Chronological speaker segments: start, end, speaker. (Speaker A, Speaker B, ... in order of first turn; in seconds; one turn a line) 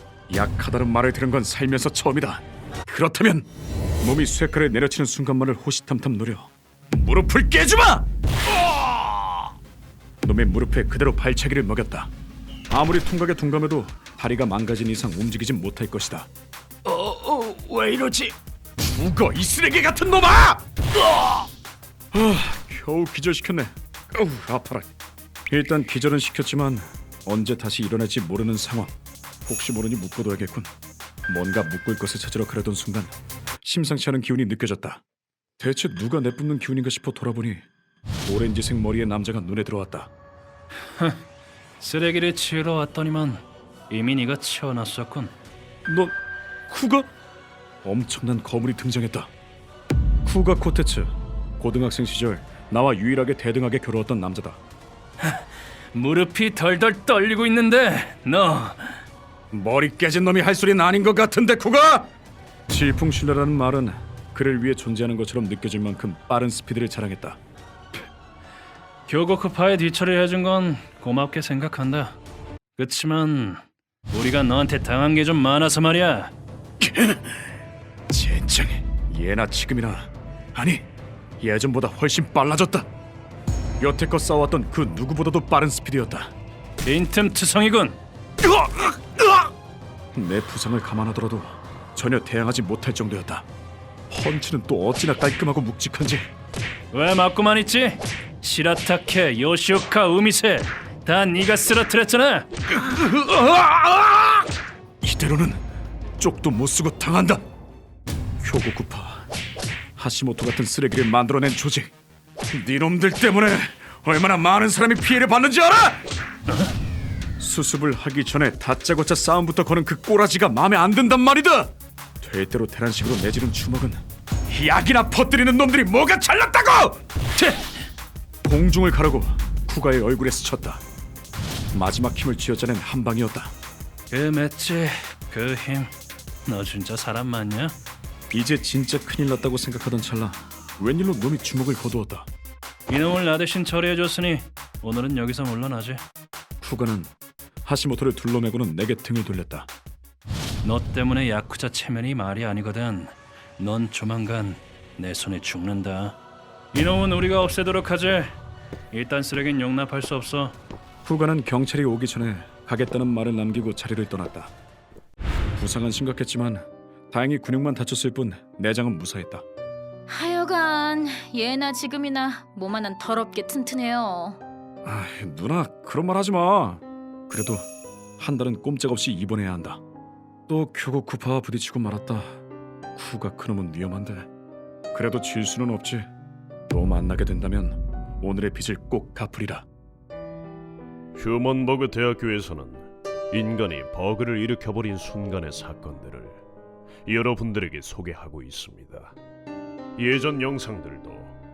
Speaker A: 0.3-3.5
Speaker A: 4.0-8.1
Speaker B: 8.5-9.5
Speaker A: 10.2-12.1
Speaker A: 12.7-16.3
Speaker B: 16.9-18.4
Speaker A: 18.8-20.6
Speaker A: 22.1-24.9
Speaker A: 25.5-28.9
Speaker A: 29.5-30.7
Speaker A: 31.3-35.0
Speaker A: 35.6-37.7
Speaker A: 38.3-40.1
Speaker C: 41.8-45.3
Speaker A: 45.9-46.2
Speaker A: 46.7-47.1
Speaker A: 47.8-49.3
Speaker A: 50.2-54.6
Speaker C: 55.2-59.0
Speaker A: 59.5-62.1
Speaker A: 62.7-67.4
Speaker C: 69.1-72.2
Speaker C: 72.8-76.3
Speaker A: 76.8-77.4
Speaker A: 78.1-80.9
Speaker A: 81.4-82.9
Speaker A: 83.8-86.3
Speaker C: 86.8-88.0
Speaker A: 88.6-88.9
Speaker A: 90.2-93.5
Speaker A: 94.1-96.3
Speaker C: 96.9-102.5
Speaker A: 102.8-104.4
Speaker A: 105.0-105.6
Speaker A: 106.2-107.4
Speaker A: 108.4-109.3
Speaker A: 110.0-111.9
Speaker A: 112.5-116.0
Speaker A: 117.4-127.6
Speaker A: 128.4-130.8
Speaker A: 131.7-133.5
Speaker C: 134.1-135.9
Speaker C: 136.5-137.8
Speaker A: 138.3-142.3
Speaker C: 142.9-146.0
Speaker A: 146.6-147.1
Speaker A: 147.7-149.7
Speaker C: 150.6-156.2
Speaker C: 156.7-158.4
Speaker C: 158.9-160.6
Speaker A: 161.1-164.5
Speaker A: 165.6-169.4
Speaker D: 170.1-174.3
Speaker A: 174.8-177.7
Speaker A: 178.2-179.8
Speaker A: 180.5-182.4
Speaker A: 182.9-184.3
Speaker A: 184.9-186.1
Speaker A: 186.7-189.7
Speaker E: 191.2-196.4
Speaker E: 197.1-199.2
Speaker E: 200.0-201.4